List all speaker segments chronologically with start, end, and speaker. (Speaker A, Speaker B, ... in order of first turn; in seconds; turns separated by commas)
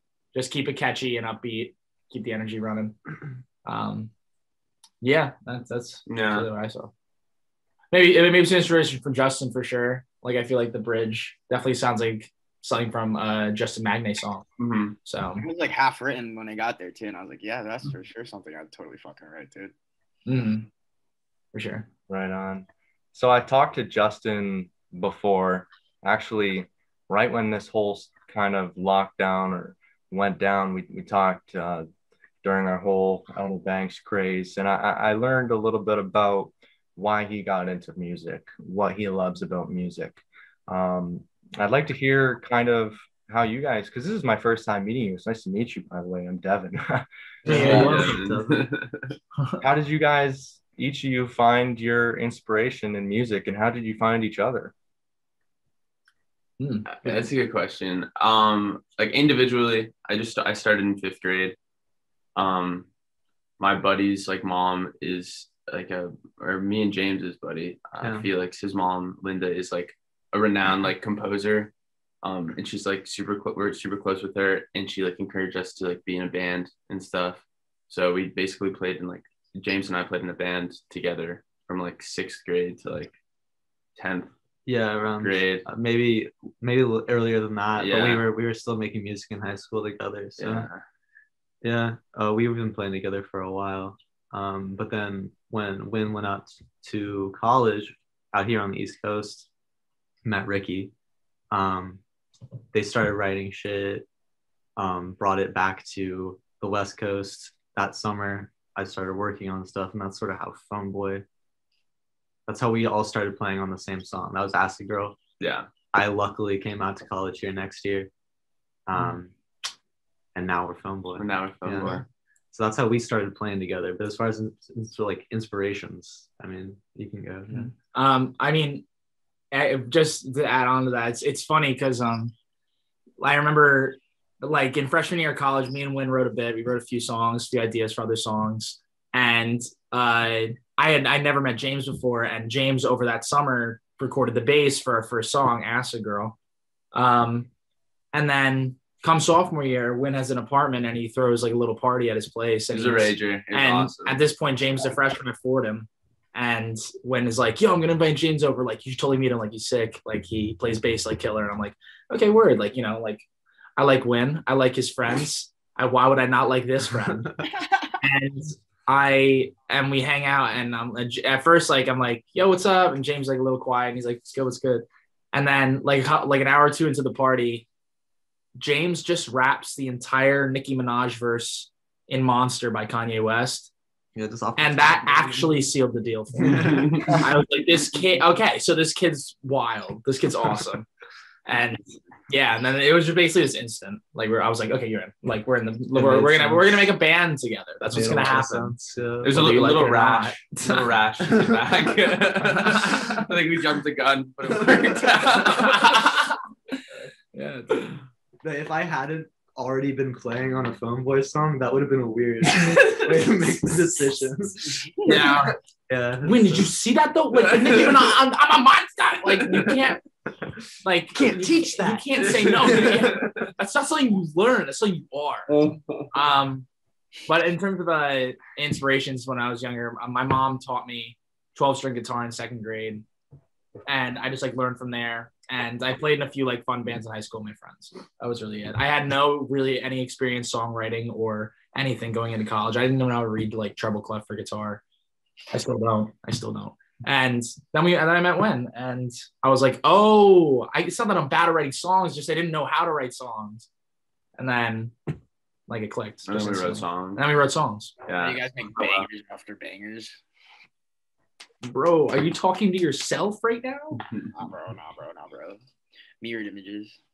Speaker A: 0.3-3.0, Speaker A: 3.6-4.1, Speaker A: 5.0-6.9, Speaker B: 6.1-6.5, Speaker A: 7.9-14.5, Speaker B: 14.6-15.0, Speaker A: 15.1-15.5, Speaker C: 15.4-19.7, Speaker A: 20.3-20.7, Speaker A: 21.5-21.9, Speaker D: 22.1-31.9, Speaker D: 32.4-47.1, Speaker A: 47.5-48.2, Speaker E: 47.5-48.6, Speaker B: 47.5-49.2, Speaker D: 49.6-54.7, Speaker A: 56.6-57.2, Speaker B: 56.9-61.6, Speaker B: 62.4-62.9, Speaker B: 63.6-71.7, Speaker E: 68.0-68.3, Speaker B: 72.2-83.1, Speaker B: 84.0-84.3, Speaker E: 84.7-90.7, Speaker B: 85.2-85.7, Speaker B: 87.8-88.2, Speaker B: 90.4-90.8, Speaker E: 91.6-99.5, Speaker E: 100.2-100.9, Speaker E: 101.5-102.0, Speaker E: 102.7-104.1, Speaker E: 104.8-111.2, Speaker E: 112.5-115.2, Speaker B: 115.4-115.7, Speaker E: 115.9-118.1, Speaker E: 118.9-119.3, Speaker E: 120.3-127.7, Speaker B: 121.2-122.1, Speaker A: 127.5-128.8, Speaker A: 129.5-132.3, Speaker A: 133.2-146.4, Speaker A: 146.9-147.5, Speaker A: 148.1-163.2, Speaker B: 152.7-154.2, Speaker A: 163.8-167.2, Speaker E: 166.9-167.5, Speaker C: 167.6-167.9, Speaker A: 168.0-177.7, Speaker A: 178.6-183.7, Speaker E: 184.2-185.6, Speaker A: 184.6-190.9, Speaker E: 186.4-187.3, Speaker B: 186.6-187.2, Speaker A: 191.5-200.8, Speaker E: 195.9-196.9, Speaker E: 197.9-199.4, Speaker B: 199.2-205.9, Speaker E: 201.3-201.6, Speaker A: 202.5-203.2, Speaker E: 204.4-205.6, Speaker A: 205.4-206.8, Speaker A: 207.3-208.0, Speaker E: 208.4-214.9, Speaker B: 212.9-213.3, Speaker A: 215.1-215.6, Speaker B: 215.1-215.4, Speaker E: 215.9-216.7, Speaker A: 216.2-220.0, Speaker A: 220.8-226.7, Speaker E: 221.2-223.3, Speaker B: 222.6-223.1, Speaker B: 225.5-226.1, Speaker A: 227.3-233.1, Speaker A: 233.9-244.8, Speaker A: 245.5-253.7, Speaker A: 254.4-255.0, Speaker A: 255.7-257.9, Speaker B: 256.3-257.2, Speaker B: 258.1-259.1, Speaker C: 258.2-260.2, Speaker A: 261.6-264.0, Speaker C: 264.3-265.6, Speaker C: 266.2-267.0